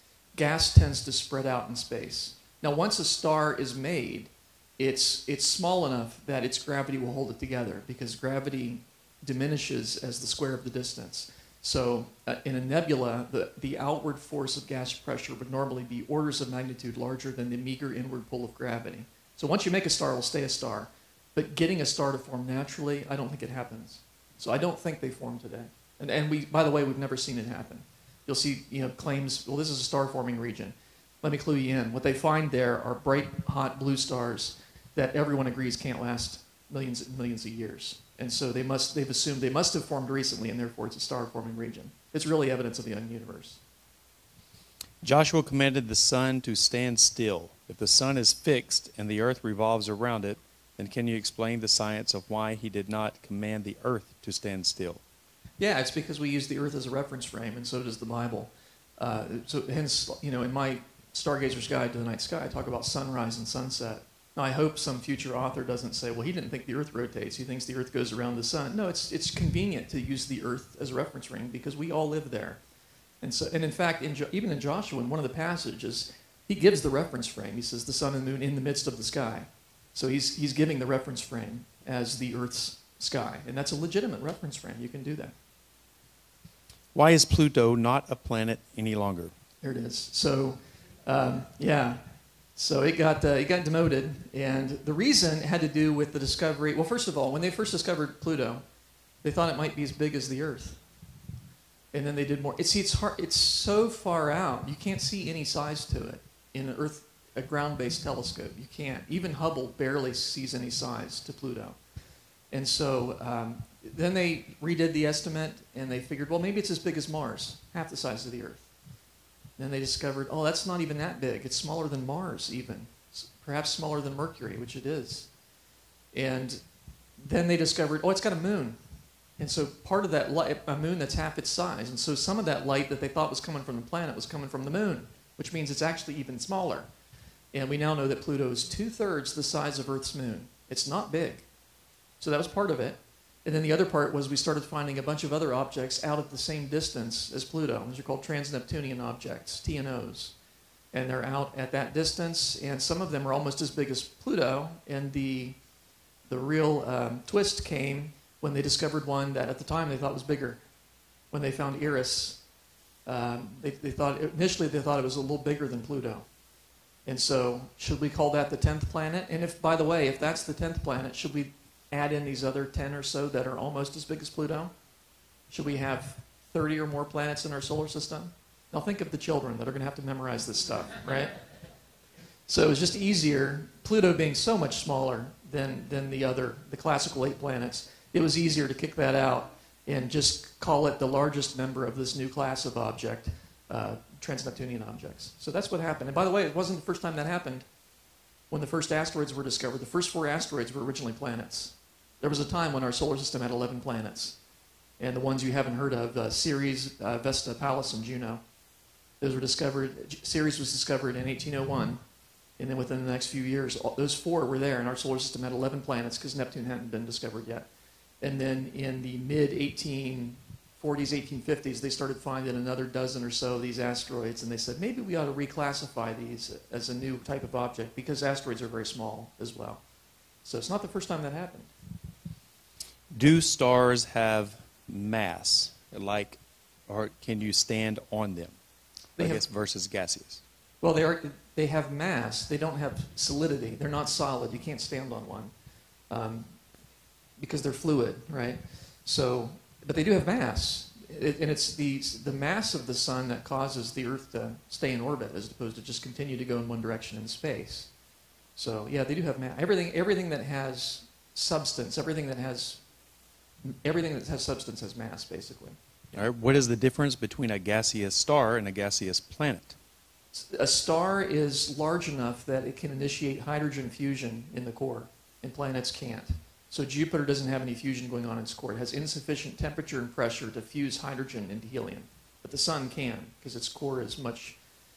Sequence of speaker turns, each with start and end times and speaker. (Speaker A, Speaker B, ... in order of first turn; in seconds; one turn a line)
Speaker A: 0.3-43.6
Speaker B: 45.0-55.0
Speaker A: 55.6-72.6
Speaker A: 73.2-85.3
Speaker B: 86.9-89.3
Speaker A: 89.6-98.6
Speaker A: 99.2-100.8
Speaker A: 101.9-111.8
Speaker A: 112.5-118.7
Speaker A: 119.6-125.3
Speaker A: 126.1-126.6
Speaker A: 127.2-128.8
Speaker A: 129.4-136.9
Speaker A: 137.5-141.5
Speaker A: 142.2-150.3
Speaker A: 150.9-155.6
Speaker A: 156.3-160.6
Speaker A: 161.3-162.4
Speaker A: 163.1-166.3
Speaker A: 167.1-174.7
Speaker A: 175.5-181.4
Speaker A: 182.5-197.7
Speaker A: 198.5-204.4
Speaker A: 205.0-208.4
Speaker A: 209.2-212.0
Speaker A: 212.6-217.7
Speaker A: 218.2-229.8
Speaker A: 230.4-231.7
Speaker B: 233.1-238.6
Speaker A: 239.2-239.4
Speaker B: 239.2-240.4
Speaker A: 240.8-245.5
Speaker A: 246.1-246.5
Speaker A: 247.4-257.9
Speaker A: 258.6-262.8
Speaker A: 263.6-265.8
Speaker B: 266.1-269.8
Speaker A: 270.3-284.6